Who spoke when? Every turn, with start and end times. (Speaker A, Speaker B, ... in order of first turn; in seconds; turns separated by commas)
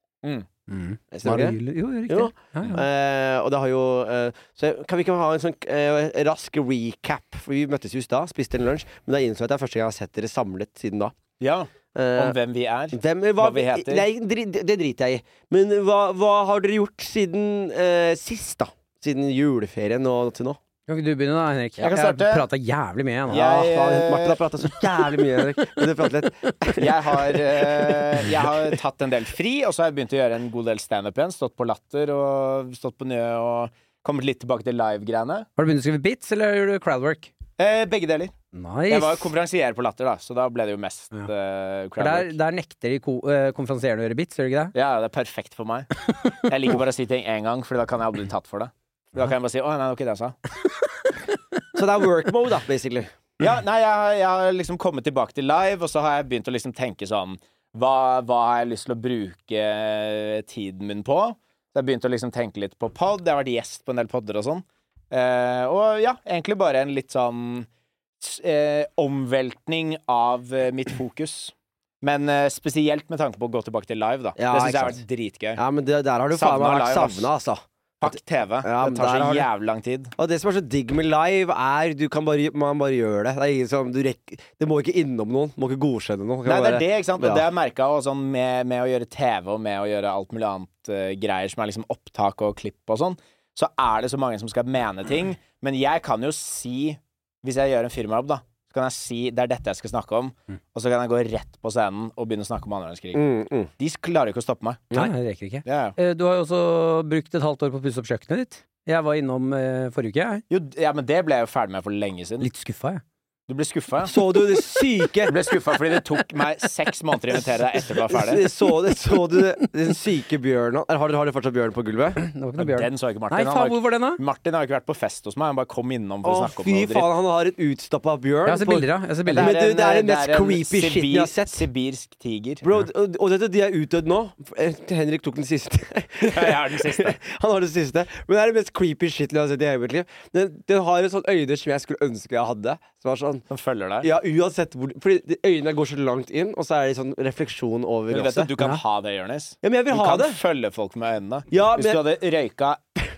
Speaker A: 0.7-2.8, Speaker B: 1.1-11.1, Speaker C: 11.4-14.0, Speaker B: 11.9-12.3, Speaker B: 12.9-20.6, Speaker A: 20.9-23.7, Speaker C: 21.8-22.4, Speaker C: 23.3-24.4, Speaker B: 23.3-28.5, Speaker C: 26.8-35.5, Speaker A: 35.6-37.3, Speaker C: 37.6-38.3, Speaker A: 38.5-39.3, Speaker C: 38.9-42.3, Speaker A: 42.0-44.7, Speaker C: 44.7-50.3, Speaker B: 51.7-53.1, Speaker C: 53.4-67.7, Speaker C: 68.2-75.6, Speaker B: 74.4-75.0, Speaker B: 75.5-79.5, Speaker C: 76.3-77.3, Speaker C: 78.0-80.1, Speaker B: 80.2-87.5, Speaker C: 86.4-103.2, Speaker B: 103.1-103.7, Speaker C: 103.8-105.0, Speaker A: 104.9-110.4, Speaker C: 105.6-105.9, Speaker C: 110.5-112.5, Speaker A: 112.4-113.0, Speaker C: 113.5-114.1, Speaker B: 114.0-115.3, Speaker C: 115.2-118.4, Speaker B: 118.1-122.2, Speaker A: 122.2-124.2, Speaker C: 122.6-127.1, Speaker B: 126.2-131.7, Speaker A: 128.4-129.5, Speaker C: 129.3-132.6, Speaker B: 132.6-143.4, Speaker C: 136.2-137.2, Speaker C: 143.5-144.1, Speaker B: 144.0-148.5, Speaker C: 148.1-152.8, Speaker B: 149.6-150.4, Speaker B: 151.5-152.0